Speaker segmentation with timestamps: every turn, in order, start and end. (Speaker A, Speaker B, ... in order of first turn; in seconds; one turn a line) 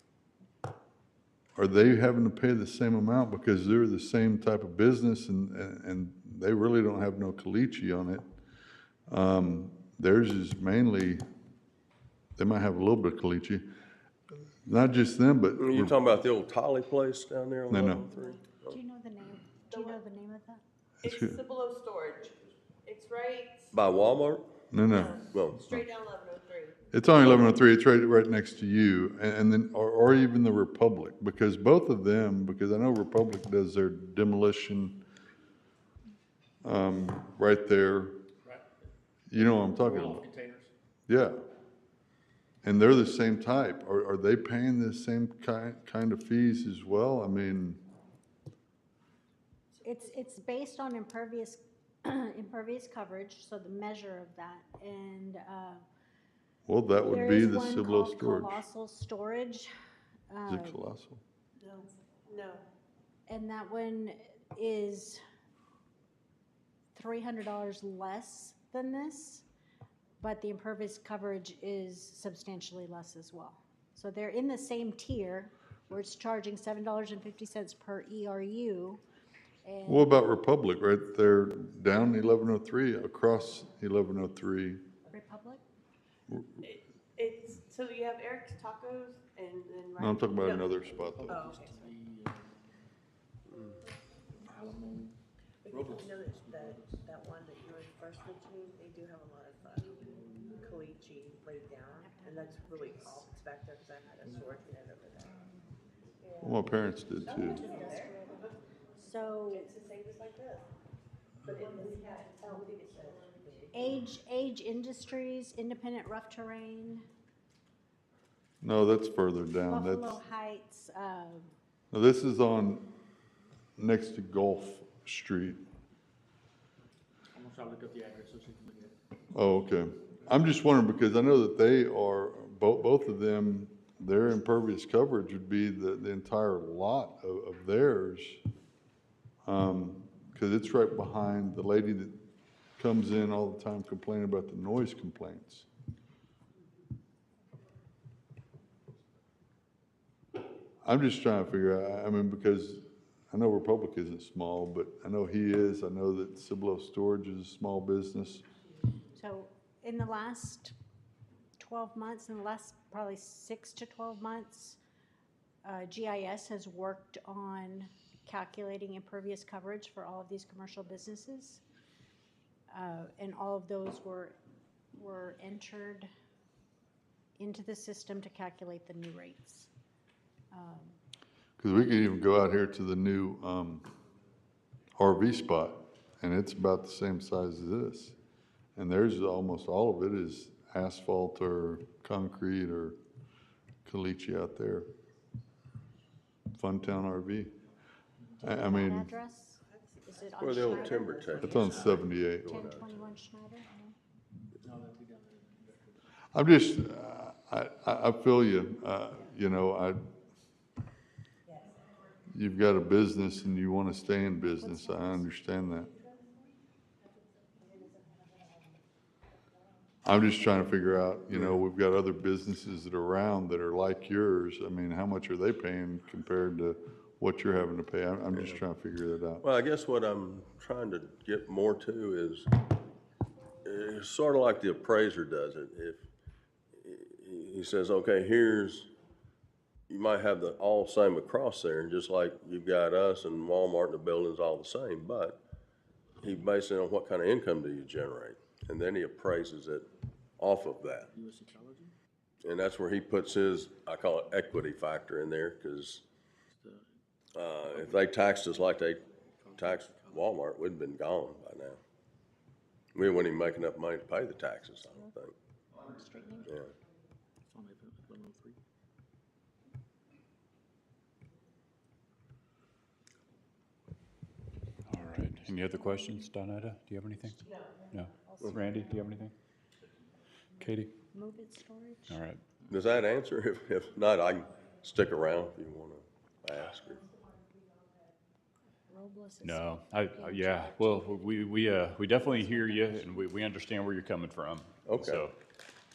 Speaker A: 1.6-8.2
Speaker A: 9.1-11.2
Speaker A: 12.4-13.6
Speaker A: 14.6-16.1
Speaker B: 15.6-18.8
Speaker A: 17.7-18.0
Speaker C: 18.7-20.6
Speaker A: 21.0-21.4
Speaker D: 21.0-23.7
Speaker B: 23.7-24.5
Speaker A: 24.7-25.8
Speaker D: 24.9-26.8
Speaker B: 25.3-25.6
Speaker A: 26.9-35.0
Speaker B: 27.2-27.5
Speaker A: 36.6-38.2
Speaker E: 38.4-38.9
Speaker A: 39.3-40.3
Speaker E: 39.4-40.7
Speaker A: 41.1-41.4
Speaker A: 42.6-47.8
Speaker C: 49.8-55.8
Speaker A: 56.7-58.6
Speaker C: 57.0-59.7
Speaker C: 60.3-60.8
Speaker A: 60.5-61.2
Speaker D: 62.3-62.6
Speaker C: 63.3-65.2
Speaker C: 66.9-69.4
Speaker C: 70.2-79.0
Speaker C: 79.6-80.1
Speaker A: 79.9-84.8
Speaker C: 85.1-85.6
Speaker A: 86.3-86.6
Speaker D: 86.6-90.9
Speaker A: 90.0-91.5
Speaker E: 90.9-92.7
Speaker F: 91.3-91.9
Speaker B: 93.5-93.8
Speaker E: 94.4-95.2
Speaker F: 95.6-105.4
Speaker E: 95.7-97.1
Speaker E: 100.0-100.7
Speaker C: 102.0-103.1
Speaker F: 106.2-106.6
Speaker A: 106.4-107.7
Speaker F: 107.2-108.1
Speaker C: 107.5-108.4
Speaker C: 109.0-109.7
Speaker F: 109.5-110.7
Speaker F: 111.4-114.0
Speaker C: 113.7-117.0
Speaker A: 118.6-120.2
Speaker C: 119.7-121.5
Speaker A: 121.9-122.9
Speaker A: 123.8-125.6
Speaker E: 127.3-129.0
Speaker A: 129.3-138.4
Speaker A: 139.4-142.2
Speaker A: 142.8-145.7
Speaker A: 150.8-158.4
Speaker C: 159.1-160.7
Speaker C: 161.6-164.8
Speaker C: 165.6-171.6
Speaker C: 172.7-174.4
Speaker C: 174.9-176.1
Speaker C: 177.4-179.7
Speaker C: 180.5-181.0
Speaker A: 181.6-183.8
Speaker A: 185.0-188.1
Speaker A: 188.8-193.0
Speaker A: 193.8-194.9
Speaker A: 196.5-197.6
Speaker A: 198.4-199.1
Speaker C: 198.4-201.6
Speaker F: 199.6-202.1
Speaker B: 200.4-203.0
Speaker A: 201.4-202.7
Speaker C: 202.4-203.9
Speaker E: 204.6-206.0
Speaker A: 206.3-210.0
Speaker F: 211.4-211.9
Speaker A: 212.3-215.9
Speaker C: 214.6-215.2
Speaker F: 217.5-218.8
Speaker A: 220.0-229.4
Speaker B: 221.3-221.6
Speaker B: 228.3-228.6
Speaker B: 229.4-232.5
Speaker B: 233.6-236.0
Speaker B: 236.8-238.9
Speaker B: 239.9-245.4
Speaker B: 246.2-249.9
Speaker B: 250.4-251.1
Speaker E: 251.1-251.9
Speaker B: 252.4-256.0
Speaker E: 256.5-256.9
Speaker B: 257.3-259.0
Speaker E: 257.7-258.2
Speaker E: 259.2-260.3
Speaker B: 259.6-261.8
Speaker B: 262.9-265.3
Speaker C: 265.9-266.5
Speaker E: 267.5-268.6
Speaker G: 274.9-277.4
Speaker C: 277.3-279.1
Speaker G: 277.9-279.3
Speaker G: 280.6-280.9
Speaker C: 281.1-282.2
Speaker G: 282.1-282.4
Speaker B: 282.7-287.0
Speaker C: 288.9-291.1
Speaker G: 289.4-295.3
Speaker C: 292.3-292.9
Speaker B: 294.9-295.2